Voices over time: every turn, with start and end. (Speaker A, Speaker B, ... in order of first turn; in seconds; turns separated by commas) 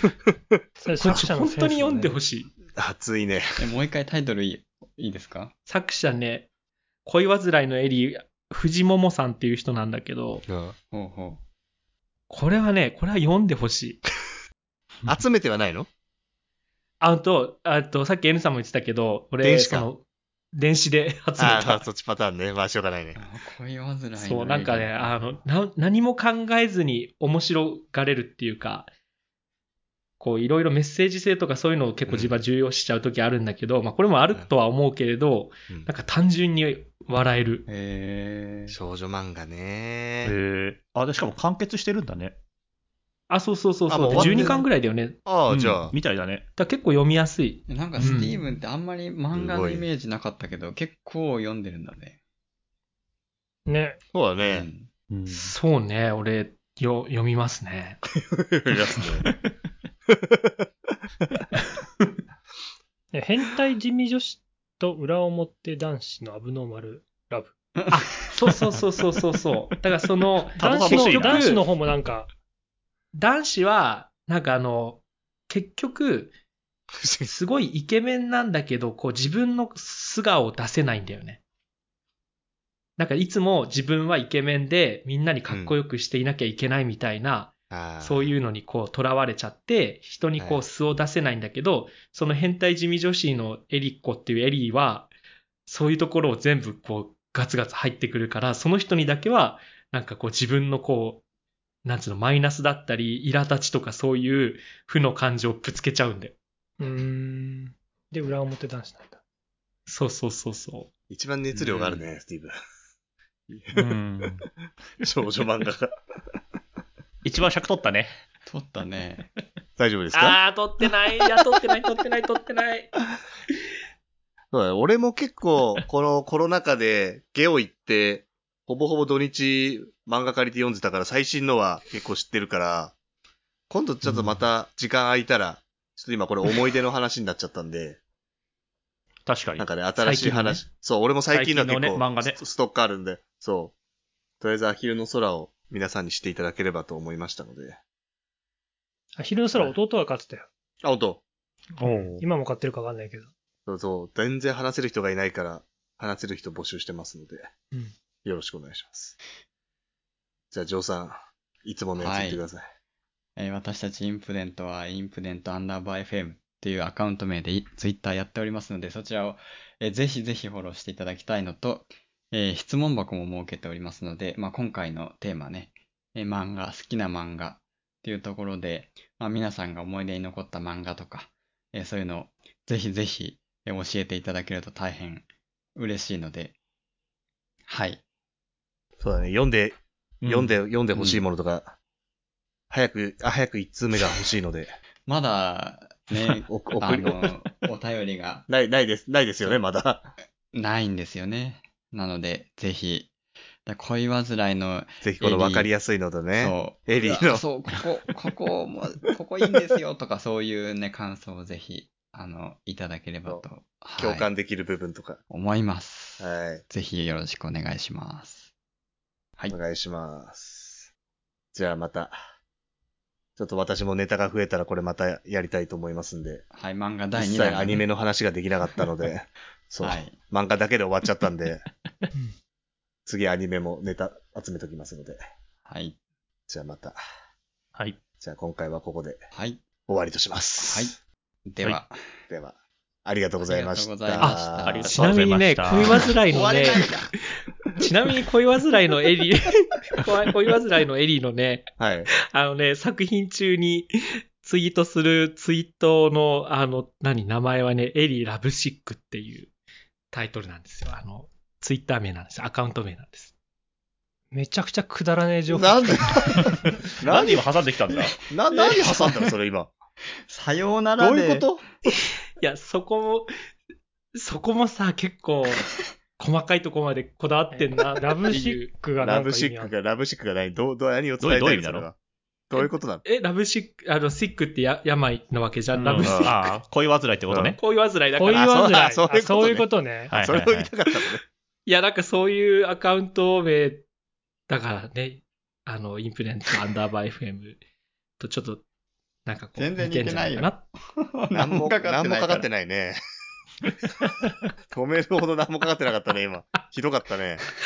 Speaker A: 0.8-2.1, Speaker B: 1.0-2.5, Speaker C: 2.8-3.6, Speaker D: 3.6-5.5, Speaker B: 5.7-6.5, Speaker B: 7.0-10.5, Speaker C: 10.5-10.8, Speaker D: 10.9-11.4, Speaker B: 12.3-14.0, Speaker C: 15.1-15.9, Speaker B: 17.0-21.9, Speaker C: 19.4-19.9, Speaker C: 21.4-23.2, Speaker D: 23.2-25.2, Speaker B: 24.2-28.9, Speaker B: 30.2-37.6, Speaker C: 32.1-32.4, Speaker D: 37.7-38.8, Speaker C: 38.7-40.4, Speaker E: 40.2-42.4, Speaker B: 43.3-45.3, Speaker C: 43.9-44.7, Speaker E: 44.1-44.5, Speaker C: 45.2-46.0, Speaker E: 45.5-46.5, Speaker B: 46.6-48.4, Speaker D: 47.7-52.2, Speaker C: 49.3-49.9, Speaker A: 53.7-54.0, Speaker C: 54.1-54.7, Speaker D: 54.5-54.9, Speaker E: 55.1-55.5, Speaker B: 55.3-58.0, Speaker C: 58.3-59.3, Speaker A: 63.1-67.5, Speaker D: 67.8-68.7, Speaker B: 67.9-71.6, Speaker A: 70.6-72.3, Speaker E: 70.6-71.6, Speaker B: 73.2-76.3, Speaker C: 77.0-77.4, Speaker B: 77.3-81.4, Speaker B: 83.0-95.1, Speaker C: 85.5-85.8, Speaker C: 87.7-88.3, Speaker C: 90.4-90.6, Speaker B: 95.7-101.2, Speaker B: 101.8-106.4, Speaker A: 106.8-109.2, Speaker B: 109.9-110.9, Speaker C: 111.1-112.5, Speaker D: 111.5-112.1, Speaker C: 113.5-113.8, Speaker E: 113.7-114.5, Speaker C: 115.0-115.9, Speaker E: 117.2-118.1, Speaker D: 118.5-119.3, Speaker C: 119.8-120.4, Speaker B: 120.1-122.9, Speaker C: 124.5-132.9, Speaker C: 133.7-138.0, Speaker E: 134.1-134.4, Speaker E: 139.3-139.7, Speaker C: 139.6-143.7, Speaker B: 140.0-140.6, Speaker E: 141.3-142.4, Speaker C: 144.4-147.8, Speaker A: 149.2-150.5, Speaker C: 150.8-151.2, Speaker E: 151.8-152.2, Speaker A: 151.8-153.3, Speaker C: 153.7-157.5, Speaker C: 158.2-159.2, Speaker C: 160.5-162.6, Speaker D: 162.0-162.4, Speaker D: 163.4-186.5, Speaker D: 187.7-188.0, Speaker C: 189.0-191.8, Speaker E: 190.2-190.6, Speaker D: 191.0-191.2, Speaker C: 192.7-194.7, Speaker D: 195.1-198.5, Speaker C: 196.4-197.4, Speaker C: 198.5-200.1, Speaker D: 200.5-203.1, Speaker D: 203.7-205.7, Speaker C: 205.0-207.4, Speaker D: 206.4-214.3, Speaker C: 214.0-215.2, Speaker D: 215.3-218.5, Speaker C: 216.2-216.6, Speaker C: 219.5-220.9, Speaker C: 221.5-222.2, Speaker C: 223.4-226.4, Speaker D: 226.5-227.8, Speaker C: 227.1-231.7, Speaker D: 229.8-230.2, Speaker C: 233.1-235.2, Speaker D: 235.7-236.0, Speaker C: 236.5-237.0, Speaker C: 238.2-239.2, Speaker D: 239.3-239.6, Speaker C: 239.9-240.9, Speaker D: 240.6-240.9, Speaker D: 241.5-242.0, Speaker C: 242.3-244.8, Speaker D: 243.4-245.1, Speaker B: 244.2-253.9, Speaker E: 244.6-246.1, Speaker D: 246.0-247.1, Speaker C: 251.8-252.1, Speaker B: 254.4-259.5, Speaker B: 260.1-263.3, Speaker A: 264.3-266.4, Speaker C: 265.5-267.4, Speaker E: 267.0-268.2, Speaker D: 267.9-269.3, Speaker C: 268.3-269.7, Speaker D: 270.2-271.5, Speaker C: 271.0-271.6, Speaker B: 272.4-273.3, Speaker B: 274.1-278.8, Speaker A: 277.5-279.8, Speaker C: 279.0-282.0, Speaker E: 281.2-281.9, Speaker C: 282.5-283.0, Speaker B: 282.6-286.6, Speaker E: 285.7-287.6, Speaker C: 286.0-286.4, Speaker C: 287.3-287.6, Speaker B: 287.6-288.6, Speaker A: 288.2-290.1, Speaker C: 288.2-291.2, Speaker E: 290.1-290.7, Speaker B: 291.7-293.9, Speaker B: 294.5-297.6, Speaker B: 298.2-298.6, Speaker B: 299.3-300.6, Speaker D: 299.6-302.5, Speaker C: 301.3-303.0, Speaker C: 304.7-307.4